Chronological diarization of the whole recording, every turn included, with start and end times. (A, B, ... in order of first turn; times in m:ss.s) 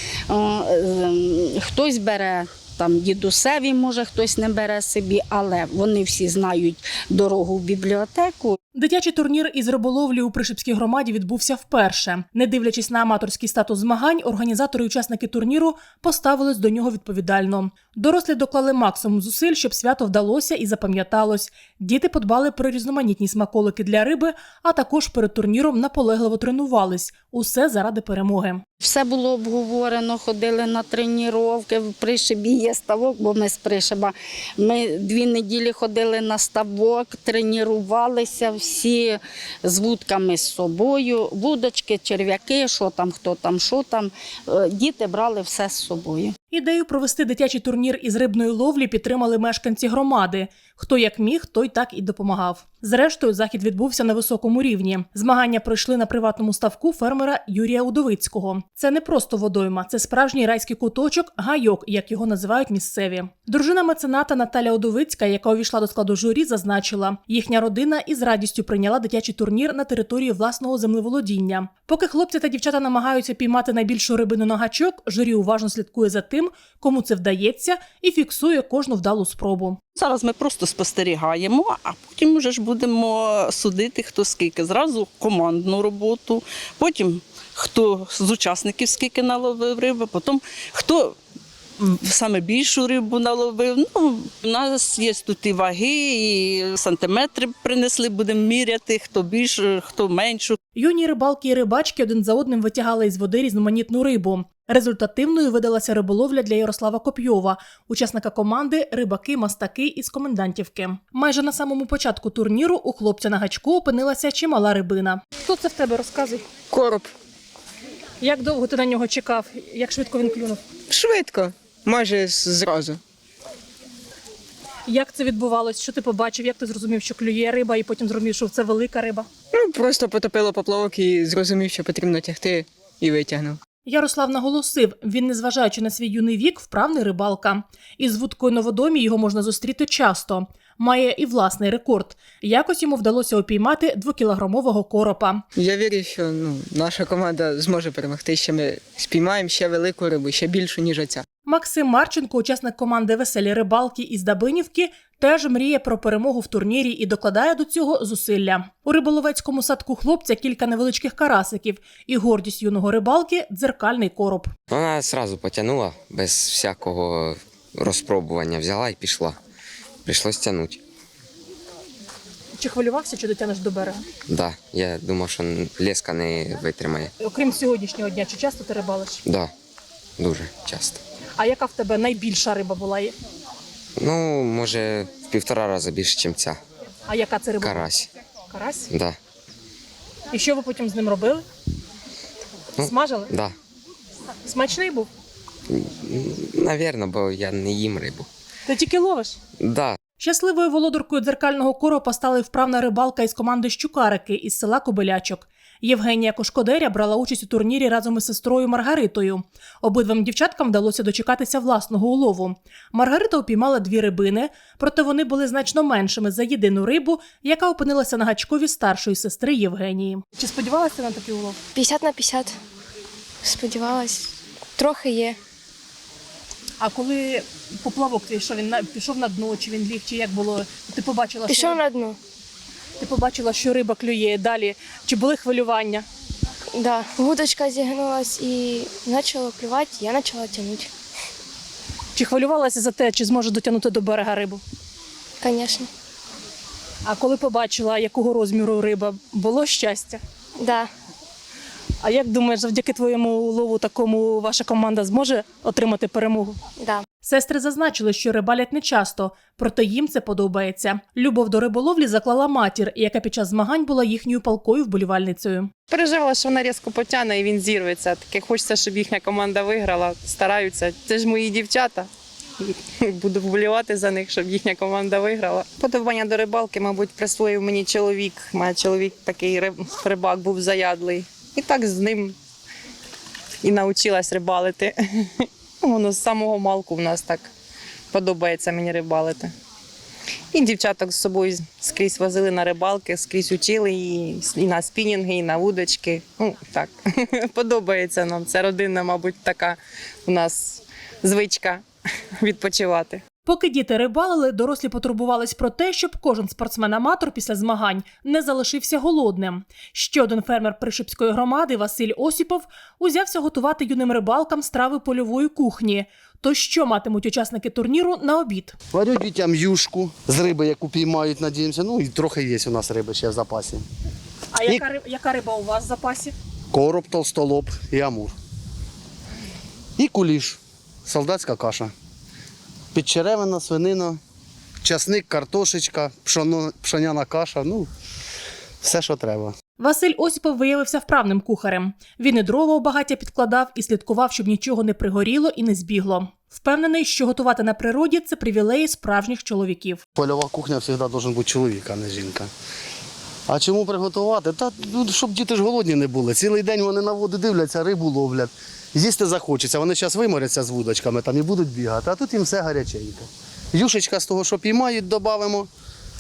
0:00.3-0:08.6 A
0:08.8-0:28.6 B
0:28.8-0:46.4 A
0:46.5-1:19.8 B
1:20.0-1:31.2 C
1:31.8-1:40.6 C
1:40.8-1:56.4 B
1:56.7-1:57.1 D
1:58.2-2:00.6 B
2:00.9-2:03.0 D
2:04.9-2:09.3 B
2:09.5-2:13.6 D
2:13.8-2:25.4 B
2:25.6-2:31.2 D
2:31.5-2:44.5 B
2:44.7-2:49.4 E
2:50.1-2:50.8 E
2:52.6-2:54.0 B
2:54.3-2:57.1 E
2:57.2-2:59.2 B
2:59.3-2:59.5 E
3:00.2-3:01.0 E
3:01.4-3:03.1 B
3:04.0-3:06.6 E
3:07.1-3:07.9 B
3:07.6-3:08.1 E
3:08.5-3:08.9 B
3:08.9-3:09.2 E
3:10.3-3:11.4 B
3:12.8-3:13.5 E
3:12.8-3:13.3 B
3:14.4-3:15.1 B
3:15.7-3:18.3 E
3:18.7-3:19.4 B
3:19.6-3:20.0 E
3:20.2-3:41.6 B
3:41.8-3:42.6 F
3:43.4-3:45.4 F
3:46.8-3:51.8 B
3:51.5-3:52.2 F
3:53.0-3:56.0 B
3:56.7-4:00.9 F
4:02.2-4:04.6 B
4:05.4-4:05.9 F
4:07.1-4:10.2 B
4:10.6-4:10.9 F
4:12.0-4:16.6 B
4:16.8-4:17.0 F
4:17.2-4:25.7 B
4:25.9-4:32.1 G
4:33.0-4:42.4 G
4:43.6-4:45.0 G
4:45.8-4:47.5 G
4:48.1-4:49.5 G
4:50.5-4:56.9 G
4:57.4-5:01.8 G
5:02.4-5:03.2 G
5:03.4-5:18.8 B
5:18.9-5:23.8 H
5:24.5-5:26.3 B
5:26.7-5:28.4 H
5:30.0-5:31.9 H
5:32.9-5:34.2 H
5:34.8-5:37.9 H
5:38.8-5:39.6 H
5:39.8-5:50.0 B
5:50.2-5:52.5 H
5:53.5-6:05.7 H